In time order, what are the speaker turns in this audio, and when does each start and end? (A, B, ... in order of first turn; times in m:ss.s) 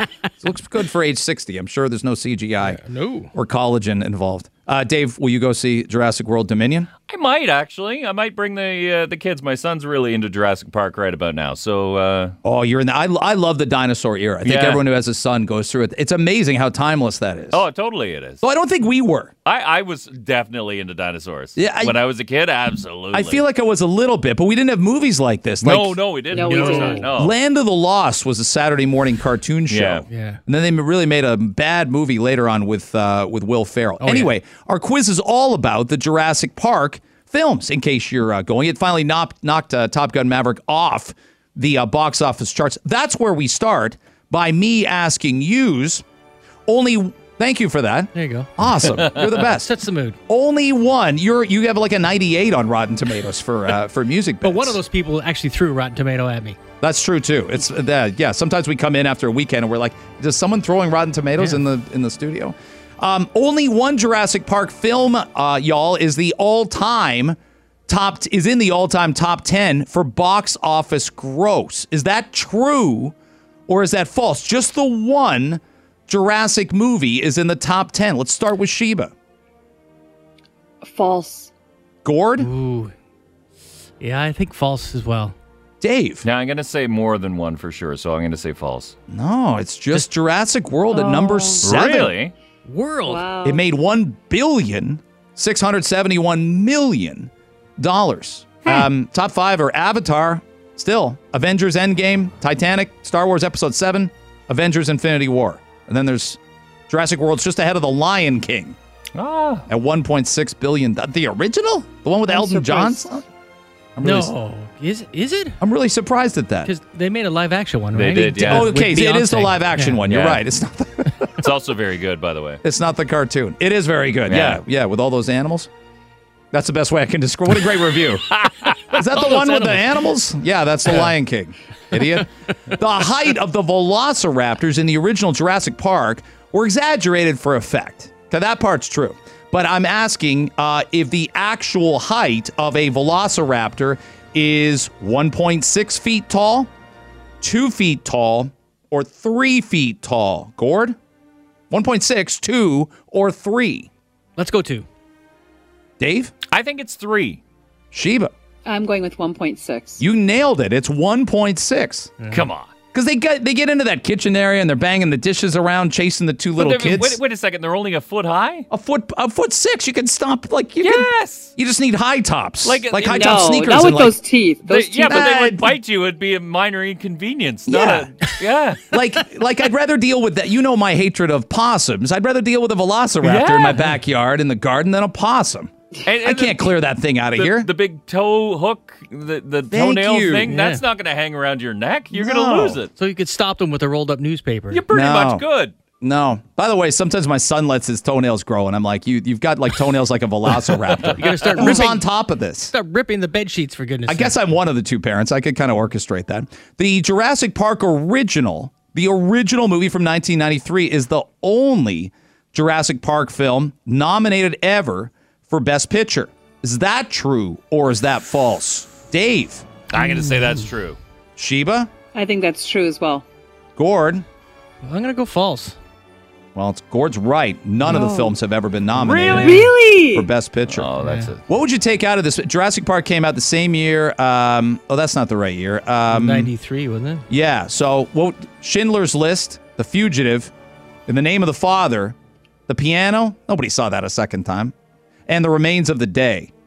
0:00.4-0:06.9 A
0:02.6-0:03.3 B
0:07.0-0:12.3 C
0:12.4-0:17.6 A
0:14.4-0:14.8 C
0:17.5-0:18.4 C
0:18.4-0:19.3 A
0:19.4-0:23.4 C
0:21.6-0:22.0 A
0:23.1-0:26.0 A
0:25.6-0:27.3 C
0:26.3-0:27.1 D
0:26.3-0:27.1 B
0:27.1-0:46.0 A
0:29.7-0:30.0 C
0:30.1-0:30.4 B
0:34.0-0:34.3 B
0:46.7-0:49.7 A
0:48.1-0:48.5 B
0:48.9-0:49.2 C
0:49.4-0:50.2 B
0:50.3-0:54.8 A
0:54.4-0:56.6 B
0:56.8-1:13.1 A
1:13.7-1:19.1 A
1:20.8-1:21.5 D
1:22.0-1:22.5 A
1:22.4-1:22.9 B
1:24.0-1:25.4 B
1:25.8-1:26.2 A
1:26.2-1:28.9 C
1:29.1-1:32.1 A
1:30.9-1:31.7 D
1:31.6-1:32.3 C
1:32.6-1:33.3 B
1:33.0-1:33.6 D
1:33.4-1:48.8 A
1:49.1-1:49.6 C
1:49.7-1:53.2 A
1:52.3-1:53.2 D
1:54.0-1:54.3 A
1:54.0-1:55.6 B
1:55.6-1:56.7 A
1:56.6-2:00.0 B
1:57.9-1:58.8 C
1:58.4-2:01.4 A
2:00.0-2:00.4 C
2:01.4-2:02.6 C
2:02.6-2:05.7 A
2:04.3-2:04.6 C
2:06.5-2:26.7 A
2:08.3-2:09.3 C
2:09.3-2:09.6 B
2:27.4-2:31.0 A
2:31.7-2:33.9 A
2:34.4-2:34.9 B
2:36.0-2:36.3 A
2:36.5-2:37.4 C
2:37.9-2:38.3 A
2:38.6-2:40.0 D
2:40.0-2:42.1 A
2:42.2-2:42.5 B
2:42.3-2:42.7 C
2:42.9-2:47.2 A
2:46.6-2:48.7 C
2:48.7-2:54.2 A
2:50.8-2:51.5 C
2:52.6-2:53.6 C
2:53.1-2:55.3 D
2:54.6-2:58.8 C
2:54.7-2:55.7 A
2:57.7-2:58.1 A
2:58.9-3:05.7 A
3:03.2-3:03.9 C
3:06.0-3:06.8 C
3:06.2-3:07.7 A
3:07.3-3:12.9 C
3:09.7-3:10.5 A
3:10.5-3:10.8 B
3:12.1-3:12.8 A
3:13.0-3:14.8 B
3:14.7-3:15.8 C
3:14.9-3:15.4 A
3:16.0-3:22.7 A
3:21.0-3:21.8 C
3:21.2-3:24.4 B
3:24.0-3:39.6 A
3:39.9-3:41.0 C
3:40.0-3:40.6 B
3:41.4-3:41.9 A
3:42.1-3:43.2 D
3:43.8-3:44.2 A
3:44.8-3:45.8 B
3:46.5-3:50.9 A
3:47.9-3:48.1 B
3:47.9-3:48.3 D
3:49.0-3:49.8 C
3:49.3-3:50.3 D
3:50.7-3:51.4 C
3:51.0-3:51.3 B
3:51.5-3:56.5 A
3:56.1-3:57.2 B
3:57.3-4:00.5 A
4:01.1-4:02.1 A
4:02.7-4:04.7 A
4:05.3-4:06.5 A